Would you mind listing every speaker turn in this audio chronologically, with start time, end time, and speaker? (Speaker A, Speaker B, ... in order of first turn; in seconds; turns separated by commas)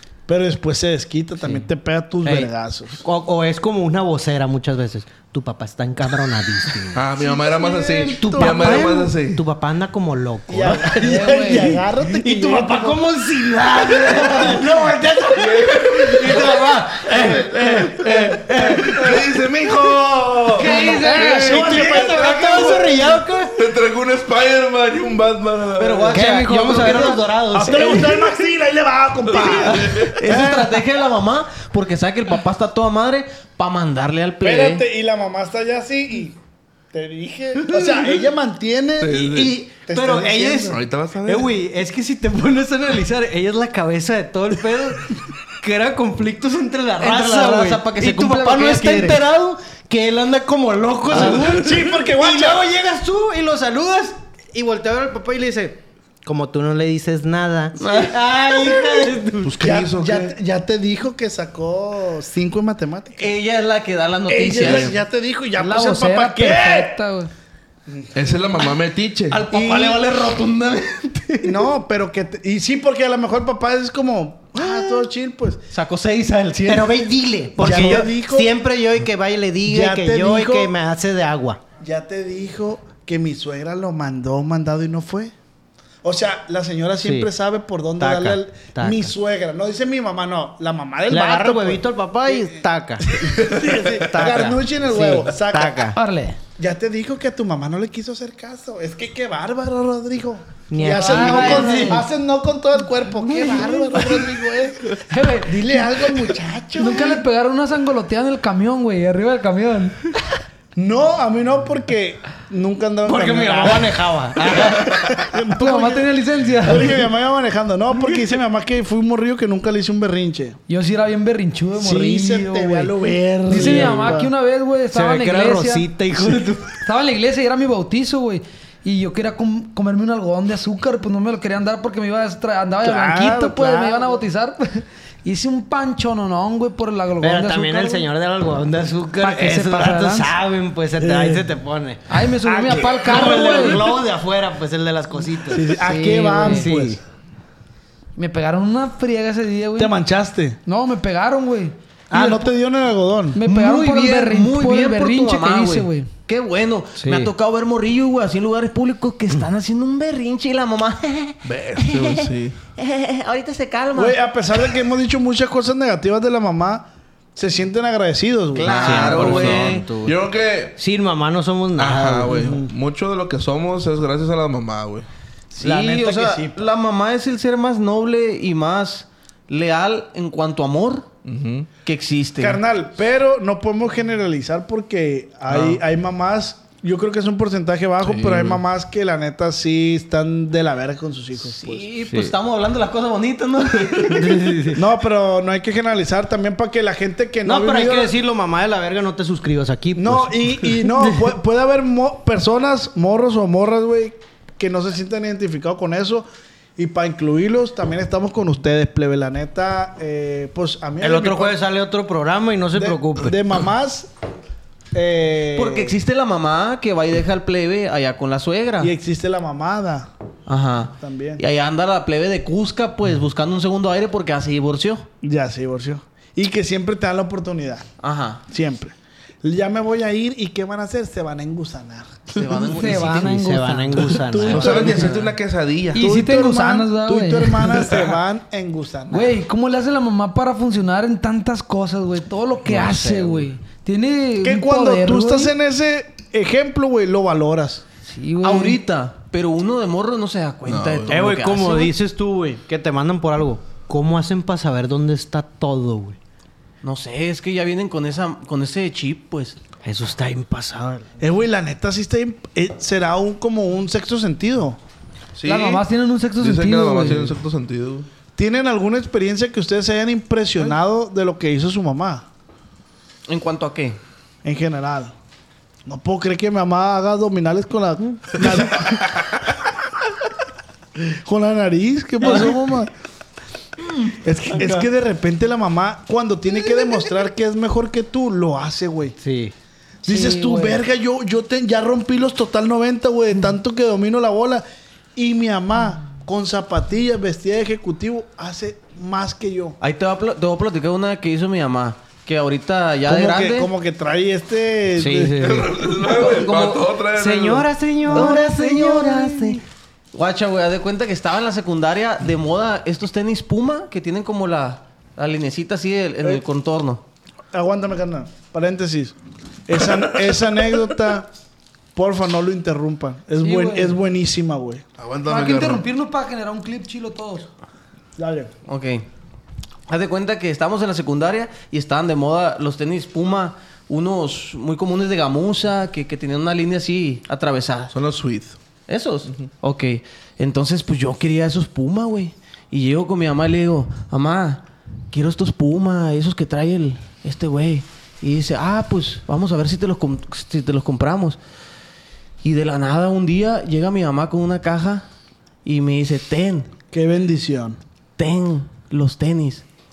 Speaker A: 0.3-3.0, Speaker B: 2.2-2.5, Speaker B: 3.0-7.0, Speaker C: 6.9-9.4, Speaker A: 7.3-8.8, Speaker B: 8.2-19.3, Speaker A: 10.5-13.1, Speaker D: 11.0-11.7, Speaker A: 14.1-14.6, Speaker C: 15.3-26.3, Speaker A: 17.1-19.0, Speaker D: 20.6-21.5, Speaker B: 20.6-23.6, Speaker A: 20.7-22.9, Speaker E: 25.8-27.2, Speaker B: 26.0-28.3, Speaker A: 27.5-30.8, Speaker C: 29.3-30.2, Speaker E: 30.0-34.8, Speaker A: 34.4-36.4, Speaker A: 36.9-40.8, Speaker C: 39.0-39.6, Speaker B: 39.7-59.5, Speaker C: 40.7-41.5, Speaker E: 47.0-49.3, Speaker A: 51.1-52.6, Speaker E: 51.1-51.4, Speaker E: 57.8-58.1, Speaker C: 59.4-60.3, Speaker A: 59.6-63.3, Speaker E: 63.2-64.9, Speaker A: 64.3-67.0, Speaker D: 65.6-67.3, Speaker C: 68.1-69.5, Speaker E: 69.3-71.6, Speaker A: 69.5-70.0, Speaker B: 69.5-69.9, Speaker A: 71.4-75.6, Speaker E: 74.6-74.8, Speaker E: 75.7-77.1, Speaker B: 76.7-81.6, Speaker A: 77.6-78.5, Speaker A: 79.6-80.7, Speaker A: 81.8-85.3, Speaker A: 86.0-96.0, Speaker B: 87.0-87.3, Speaker B: 88.0-89.1, Speaker B: 91.1-96.0, Speaker D: 96.0-96.4, Speaker A: 96.6-107.2, Speaker B: 100.7-102.0, Speaker D: 100.8-102.0, Speaker D: 103.2-104.2, Speaker D: 105.1-106.1, Speaker D: 106.8-110.0, Speaker A: 110.8-120.6, Speaker B: 113.0-115.1, Speaker D: 115.5-116.9, Speaker D: 120.7-122.9, Speaker A: 121.8-124.3, Speaker D: 123.5-125.9, Speaker B: 123.5-124.2, Speaker B: 124.9-126.8, Speaker D: 126.8-138.1, Speaker A: 132.8-134.2, Speaker B: 137.2-142.0, Speaker D: 139.2-140.3, Speaker A: 141.0-141.5, Speaker D: 142.1-143.8, Speaker A: 142.4-144.0, Speaker B: 142.6-145.7, Speaker A: 145.5-147.0, Speaker D: 145.8-146.7, Speaker B: 146.4-147.0, Speaker D: 148.2-149.9, Speaker A: 149.8-150.6, Speaker D: 150.7-151.7, Speaker A: 152.1-153.4, Speaker D: 153.3-156.1, Speaker E: 153.4-164.2, Speaker B: 157.0-157.3, Speaker C: 161.4-162.6, Speaker A: 163.9-169.7, Speaker E: 168.6-169.8, Speaker B: 168.6-170.2, Speaker C: 168.7-170.8, Speaker B: 170.8-172.7, Speaker C: 171.8-175.1, Speaker E: 175.5-181.1, Speaker A: 175.6-176.6, Speaker C: 181.2-181.7, Speaker E: 181.8-182.6, Speaker A: 182.4-191.9, Speaker C: 185.5-185.8, Speaker C: 188.0-188.6, Speaker E: 191.4-194.5, Speaker B: 192.1-192.3, Speaker B: 194.0-194.8, Speaker A: 194.7-198.2, Speaker B: 197.4-201.2, Speaker A: 199.9-211.6, Speaker B: 211.0-213.3, Speaker A: 212.7-214.1, Speaker A: 214.9-216.0, Speaker E: 215.5-218.9, Speaker A: 218.8-220.1, Speaker E: 220.5-225.1, Speaker A: 220.9-221.4, Speaker A: 225.2-227.8, Speaker E: 228.0-228.4, Speaker A: 228.5-233.1, Speaker E: 232.3-235.3, Speaker D: 232.8-233.9, Speaker B: 232.8-235.1, Speaker A: 234.0-235.1, Speaker C: 234.4-236.0, Speaker D: 235.9-237.9, Speaker A: 235.9-239.4, Speaker D: 239.1-245.5, Speaker B: 242.7-243.4, Speaker A: 244.4-247.8, Speaker D: 248.1-248.8, Speaker E: 248.4-251.9, Speaker C: 250.7-251.2, Speaker B: 251.1-256.2, Speaker E: 256.8-259.6, Speaker B: 259.8-261.1, Speaker A: 261.2-264.8, Speaker C: 265.4-265.8, Speaker D: 265.4-267.4, Speaker C: 266.4-268.1, Speaker A: 268.4-272.2, Speaker E: 273.3-274.0, Speaker A: 274.4-275.1, Speaker A: 275.8-279.0, Speaker A: 281.1-282.9, Speaker A: 284.2-289.1, Speaker B: 284.5-284.9, Speaker B: 289.2-289.5, Speaker A: 290.0-294.6, Speaker D: 290.1-290.8, Speaker A: 295.1-299.8, Speaker E: 299.8-303.7, Speaker A: 303.1-305.6, Speaker B: 304.9-305.7, Speaker C: 305.4-307.7, Speaker E: 306.0-306.8, Speaker B: 307.1-309.6, Speaker A: 308.1-308.4, Speaker E: 308.1-309.6, Speaker E: 310.1-317.0, Speaker A: 317.5-319.1, Speaker A: 319.7-321.3, Speaker A: 321.9-324.8, Speaker D: 323.4-323.9, Speaker C: 325.0-325.8, Speaker D: 325.3-327.5, Speaker A: 328.2-328.5, Speaker E: 328.6-329.0, Speaker E: 329.9-337.9, Speaker C: 337.9-338.6, Speaker E: 338.9-351.4, Speaker E: 352.4-355.1, Speaker E: 355.6-356.7, Speaker A: 356.9-357.8, Speaker E: 358.2-359.6